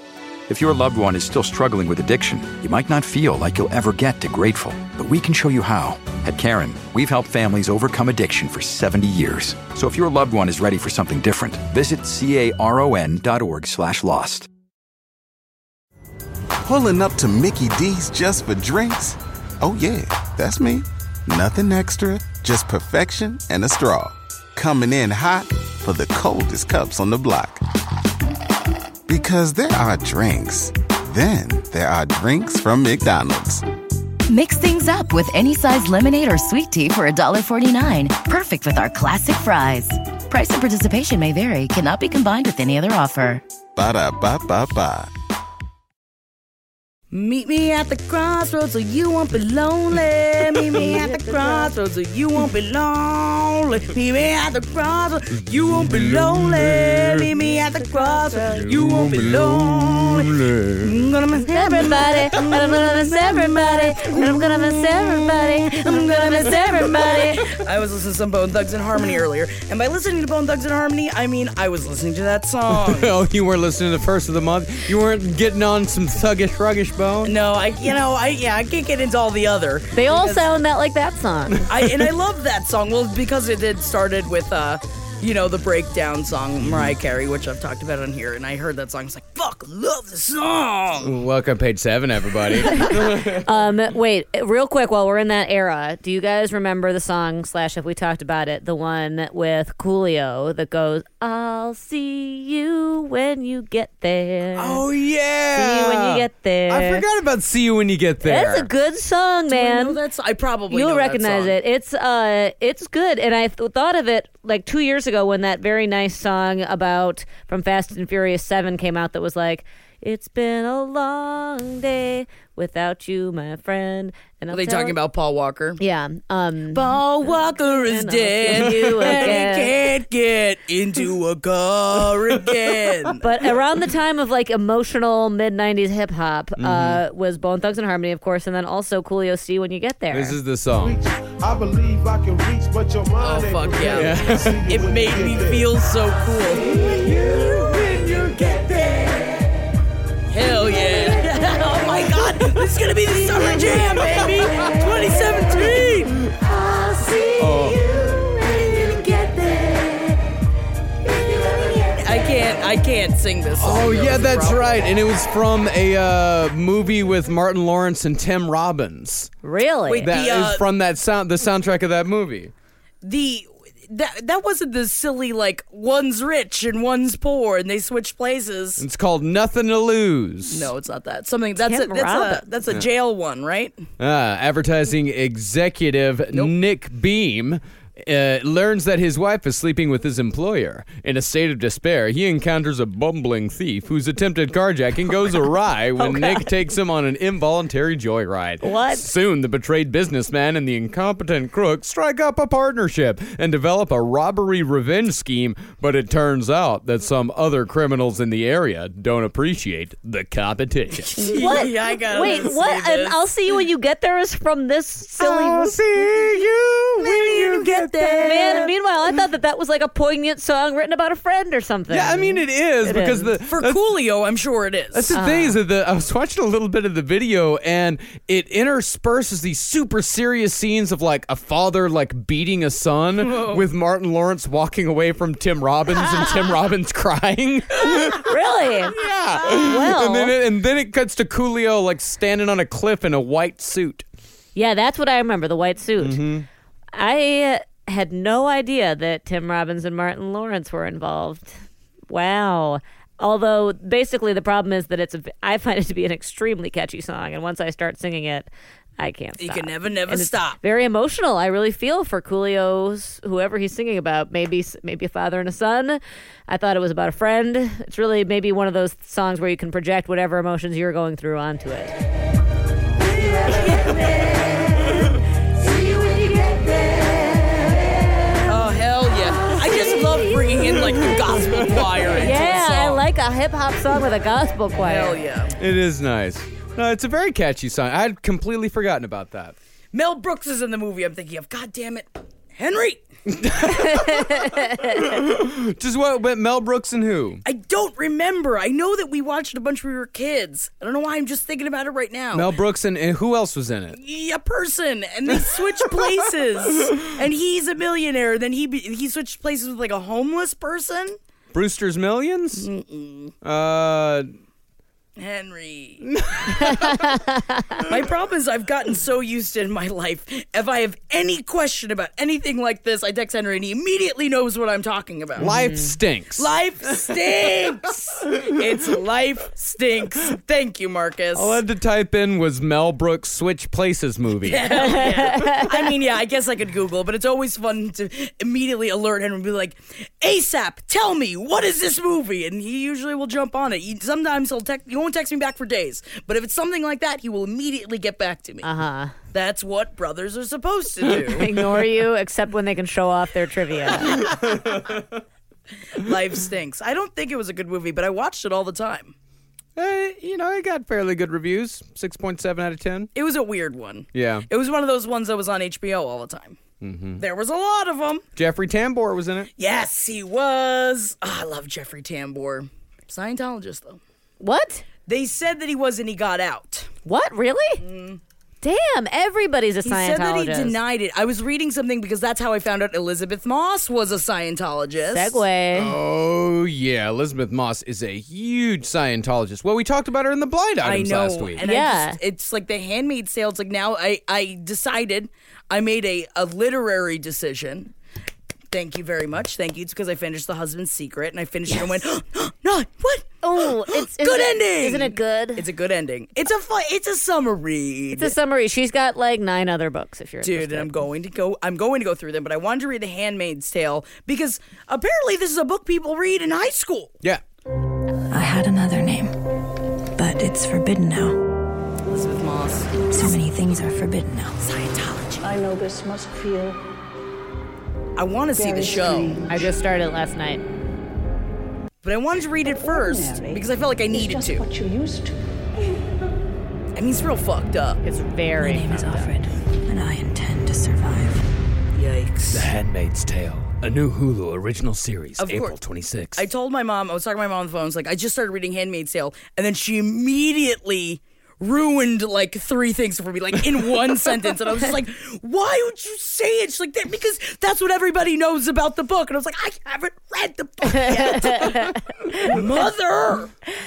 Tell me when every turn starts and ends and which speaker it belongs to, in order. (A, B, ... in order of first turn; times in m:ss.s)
0:00.5-0:14.5 A
0:16.6-0:27.6 B
0:29.1-0:33.6 B
0:34.3-0:43.4 C
0:43.8-0:45.1 B
0:47.1-1:13.2 D
0:50.7-0:51.7 E
0:55.7-0:57.2 F
0:57.7-0:58.6 E
0:58.6-1:01.1 F
1:01.4-1:07.5 E
1:12.7-1:17.4 F
1:17.2-1:20.4 D
1:19.9-1:21.7 E
1:21.5-1:22.1 F
1:21.7-1:31.2 D
1:26.6-1:27.0 F
1:31.0-1:33.5 F
1:32.7-1:44.8 E
1:44.6-1:48.7 F
1:45.6-1:47.0 E
1:48.2-1:50.0 E
1:49.5-1:51.5 D
1:50.7-2:05.0 E
2:04.5-2:05.8 D
2:05.8-2:09.8 E
2:06.7-2:13.2 D
2:13.2-2:20.4 E
2:16.6-2:17.0 F
2:20.1-2:21.0 F
2:20.8-2:25.8 G
2:23.2-2:29.5 D
2:23.9-2:24.6 F
2:30.3-2:40.2 D
2:37.4-2:37.9 F
2:41.2-2:44.7 D
2:43.6-2:49.3 F
2:49.4-2:50.1 E
2:49.9-2:50.6 D
2:50.0-2:52.5 F
2:53.0-2:58.8 D
2:58.8-3:00.7 F
3:00.5-3:03.8 D
3:01.6-3:02.4 E
3:04.0-3:31.2 F
3:16.0-3:16.5 E
3:18.6-3:19.1 E
3:31.1-3:33.2 D
3:31.2-3:35.8 E
3:35.2-3:38.6 F
3:37.0-3:38.7 D
3:38.2-3:43.4 E
3:41.9-3:43.8 F
3:43.5-3:45.2 D
3:44.9-3:58.3 F
3:45.1-3:45.6 E
3:53.2-3:53.6 D
3:58.2-4:00.4 E
3:58.9-4:04.1 F
4:04.6-4:06.2 E
4:06.0-4:06.5 F
4:06.9-4:11.5 E
4:12.1-4:32.0 E
4:19.4-4:20.6 D
4:33.5-4:34.1 E
4:36.0-4:36.5 E
4:38.5-4:43.0 D
4:41.0-4:42.0 F
4:42.2-4:45.2 E
4:44.8-4:45.6 D
4:45.6-4:49.6 F
4:49.9-4:53.0 D
4:53.3-4:57.4 F
4:53.7-4:55.0 E
4:57.4-5:02.5 D
5:02.3-5:04.0 F
5:03.9-5:11.2 D
5:05.3-5:06.3 F
5:11.5-5:12.7 F
5:12.6-5:13.3 D
5:13.4-5:14.3 F
5:15.2-5:16.1 D
5:16.0-5:17.2 F
5:16.5-5:17.7 E
5:17.9-5:25.6 D
5:25.4-5:26.5 F
5:25.4-5:25.9 E
5:26.4-5:31.6 D
5:31.3-5:35.3 F
5:34.4-5:48.7 D
5:34.8-5:35.9 E
5:48.6-5:49.1 E
5:49.3-5:51.6 D
5:51.3-5:54.3 E
5:54.2-5:55.1 F
5:55.9-5:59.1 D
5:59.8-6:03.1 F
6:03.2-6:06.6 D
6:04.1-6:04.5 F
6:06.8-6:07.2 F
6:07.2-6:08.2 D
6:08.4-6:09.5 F
6:09.6-6:14.0 D
6:14.4-6:14.8 E
6:15.1-6:16.9 D
6:17.0-6:17.8 E
6:17.8-6:18.2 D
6:18.6-6:20.8 E
6:19.8-6:25.4 D
6:25.1-6:26.0 E
6:25.8-6:31.6 F
6:30.8-6:37.9 D
6:31.6-6:32.2 E
6:38.7-6:48.4 D
6:43.4-6:45.7 E
6:48.2-6:50.9 E
6:50.4-6:57.1 D
6:58.3-6:59.3 H
7:00.2-7:01.4 H
7:02.1-7:03.2 D
7:03.1-7:04.9 H
7:04.7-7:05.6 D
7:05.4-7:06.8 I
7:08.2-7:09.5 D
7:08.5-7:09.7 I
7:09.5-7:10.6 E
7:12.0-7:14.6 D
7:12.6-7:15.4 I
7:17.0-7:18.0 D
7:18.0-7:19.3 E
7:18.6-7:21.4 H
7:21.9-7:22.7 D
7:22.5-7:26.5 F
7:25.4-7:25.8 D
7:26.4-7:43.5 D
7:40.8-7:42.6 E